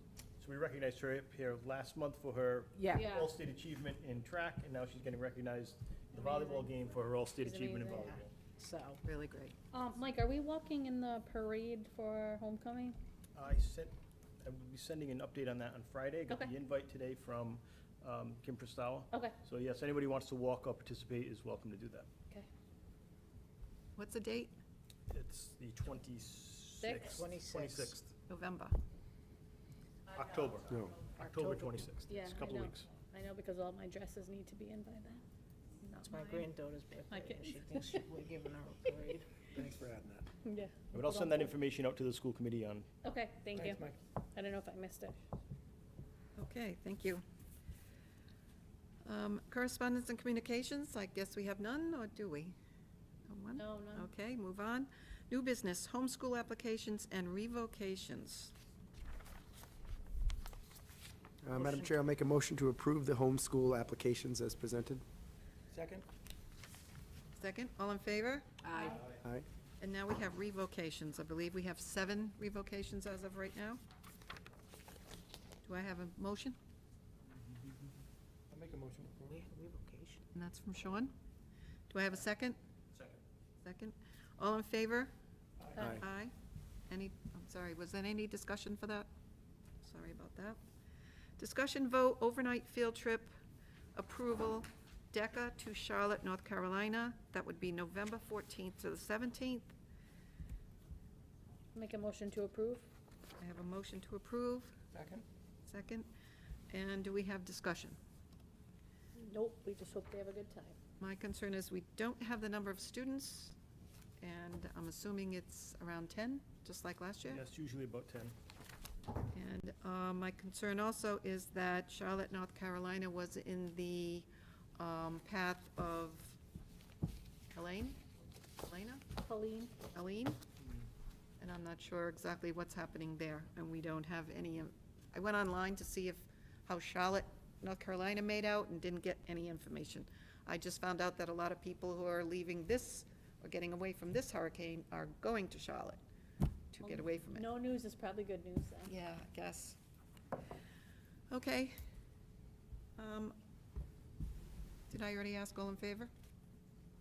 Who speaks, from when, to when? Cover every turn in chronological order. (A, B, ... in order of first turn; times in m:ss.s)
0:00.4-0:08.3 A
0:02.7-0:03.1 B
0:02.9-0:03.3 C
0:06.2-0:06.8 C
0:07.4-0:08.2 C
0:08.0-0:09.0 B
0:09.0-0:09.5 D
0:09.7-0:13.0 C
0:13.4-0:22.1 A
0:16.3-0:16.5 C
0:19.1-0:19.4 C
0:24.0-0:24.5 D
0:25.1-0:28.1 A
0:26.8-0:27.2 C
0:27.0-0:28.0 B
0:28.3-0:28.8 D
0:30.1-0:32.9 A
0:31.2-0:31.9 B
0:32.1-0:35.2 C
0:35.8-0:36.5 C
0:36.0-0:39.3 B
0:37.1-0:37.9 C
0:39.5-0:40.3 E
0:40.4-0:41.5 C
0:40.9-0:42.9 A
0:43.0-0:43.8 C
0:43.5-0:44.0 E
0:44.3-0:45.2 C
0:46.4-0:47.2 D
0:49.0-0:52.6 D
0:53.3-0:58.5 D
0:53.6-0:54.1 C
1:01.4-1:05.0 F
1:01.5-1:02.0 B
1:05.7-1:06.0 E
1:07.3-1:08.5 D
1:08.6-1:09.0 B
1:09.8-1:13.8 D
1:15.6-1:16.6 D
1:18.5-1:19.4 E
1:19.3-1:20.2 B
1:20.3-1:21.1 D
1:21.9-1:22.6 D
1:23.6-1:25.1 D
1:25.6-1:25.9 E
1:25.8-1:26.0 C
1:25.8-1:26.3 D
1:26.9-1:29.1 D
1:29.8-1:30.6 D
1:31.4-1:33.3 D
1:33.9-1:39.7 D
1:41.7-1:42.9 C
1:43.4-1:44.8 D
1:44.9-1:45.2 E
1:45.6-1:46.1 D
1:46.7-1:48.0 D
1:49.2-1:50.8 C
1:51.0-1:53.6 D
1:54.2-1:57.4 D
1:57.2-1:58.3 A
1:59.3-2:06.4 D
2:07.5-2:08.0 D
2:08.6-2:09.0 D
2:09.2-2:09.7 C
2:09.8-2:10.4 D
2:11.4-2:26.0 D
2:26.7-2:27.5 D
2:26.8-2:28.9 C
2:28.8-2:29.8 D
2:31.3-2:31.7 D
2:33.0-2:33.4 D
2:34.9-2:36.1 D